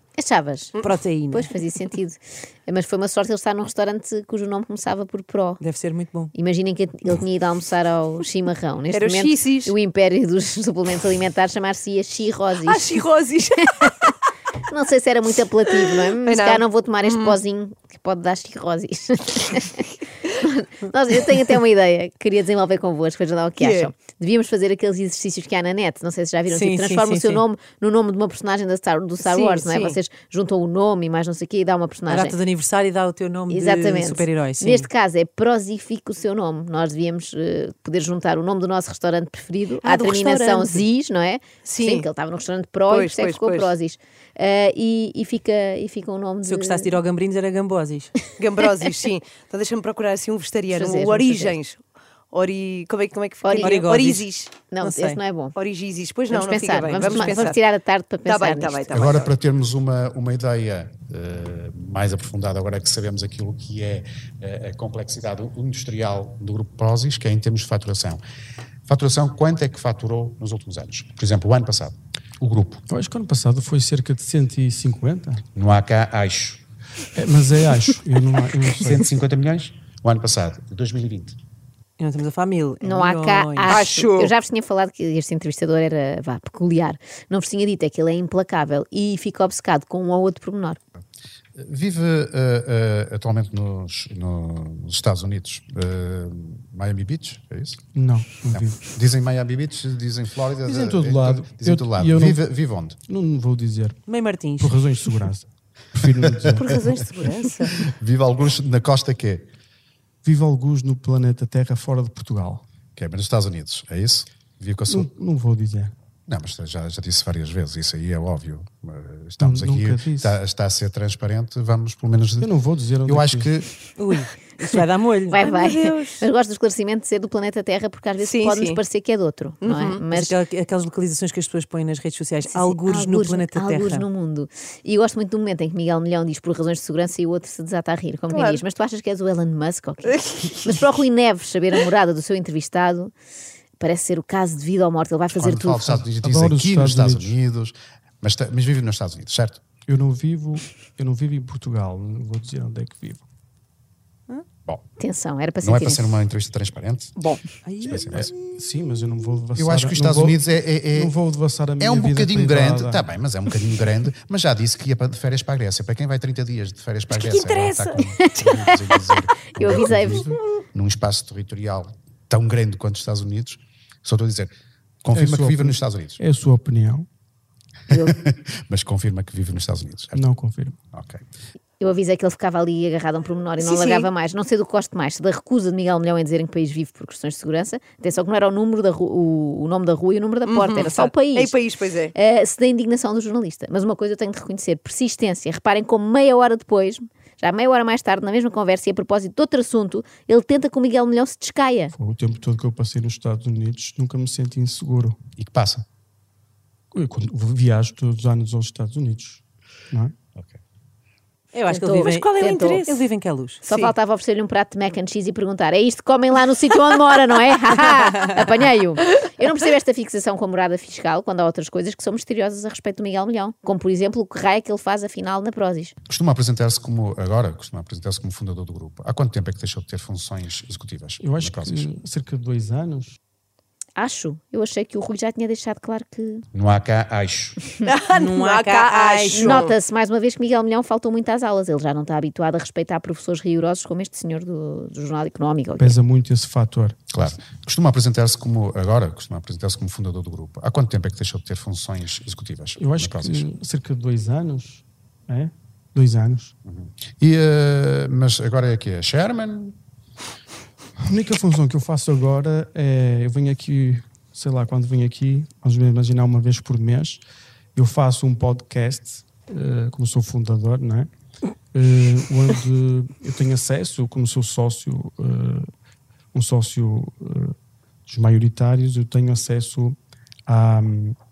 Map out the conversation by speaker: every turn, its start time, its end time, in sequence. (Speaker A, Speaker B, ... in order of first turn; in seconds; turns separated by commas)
Speaker A: 0.2-0.8, Speaker B: 0.8-1.5, Speaker A: 1.3-5.6, Speaker B: 5.6-6.3, Speaker A: 6.3-13.0, Speaker C: 8.9-9.7, Speaker C: 12.6-14.1, Speaker A: 14.7-32.4, Speaker C: 16.2-17.4, Speaker C: 23.6-23.9, Speaker B: 26.5-27.4, Speaker C: 29.2-30.0, Speaker B: 32.1-34.9, Speaker A: 33.5-46.9, Speaker C: 39.8-40.8, Speaker C: 41.6-42.1, Speaker C: 42.9-43.7, Speaker B: 46.5-48.2, Speaker C: 48.4-54.6, Speaker A: 50.7-51.6, Speaker A: 53.4-53.8, Speaker B: 53.6-55.2, Speaker A: 54.7-55.6, Speaker C: 55.5-57.6, Speaker A: 56.3-58.9, Speaker C: 58.2-59.3, Speaker D: 58.9-68.2, Speaker D: 68.9-72.8, Speaker E: 72.9-75.4, Speaker D: 75.5-76.6, Speaker E: 77.2-79.0, Speaker D: 78.7-81.4, Speaker B: 82.0-83.8, Speaker A: 82.8-90.8, Speaker C: 83.7-84.3, Speaker D: 91.6-97.8, Speaker E: 98.0-98.9, Speaker D: 98.5-103.0, Speaker E: 100.6-104.0, Speaker B: 104.1-105.1, Speaker E: 104.6-106.7, Speaker D: 106.2-106.6, Speaker C: 106.5-107.8, Speaker D: 107.7-109.5, Speaker E: 110.2-112.6, Speaker D: 113.0-115.1, Speaker E: 114.9-115.9, Speaker D: 116.3-122.5, Speaker E: 119.4-120.4, Speaker E: 122.4-123.6, Speaker D: 123.0-123.7, Speaker B: 124.0-125.8, Speaker A: 125.3-130.3, Speaker C: 125.4-126.2, Speaker C: 128.2-128.8, Speaker C: 129.6-130.0, Speaker B: 130.1-134.1, Speaker A: 132.5-143.1, Speaker C: 138.3-138.6, Speaker C: 140.1-140.8, Speaker A: 143.8-146.1, Speaker D: 145.4-149.6, Speaker E: 146.2-147.4, Speaker E: 149.9-153.2, Speaker A: 155.0-156.2, Speaker D: 155.6-158.3, Speaker B: 157.7-158.1, Speaker E: 158.0-160.4, Speaker D: 159.5-161.2, Speaker E: 160.9-163.1, Speaker D: 161.8-174.5, Speaker C: 167.1-167.9, Speaker A: 168.2-168.7, Speaker A: 169.5-170.3, Speaker E: 170.0-170.2, Speaker D: 175.0-176.2, Speaker E: 175.1-177.1, Speaker D: 177.9-180.2, Speaker E: 180.1-180.8, Speaker D: 180.9-181.2, Speaker A: 181.8-191.5, Speaker C: 183.6-184.1, Speaker C: 190.5-192.1, Speaker A: 192.1-201.9, Speaker E: 201.9-205.2, Speaker D: 205.4-205.8, Speaker E: 206.9-210.2, Speaker B: 211.5-213.6, Speaker A: 211.7-212.9, Speaker C: 211.9-212.6, Speaker A: 213.7-225.9, Speaker C: 213.7-213.9, Speaker D: 226.1-231.9, Speaker E: 231.2-233.2, Speaker A: 234.0-236.4, Speaker D: 236.5-237.6, Speaker C: 237.8-239.7, Speaker B: 238.1-239.7, Speaker A: 239.3-246.0, Speaker E: 245.8-247.1, Speaker D: 247.1-253.5, Speaker E: 252.8-256.6, Speaker D: 256.7-259.8, Speaker E: 261.0-267.2, Speaker E: 267.8-271.1, Speaker E: 271.7-275.7, Speaker E: 276.3-277.6, Speaker E: 278.1-281.2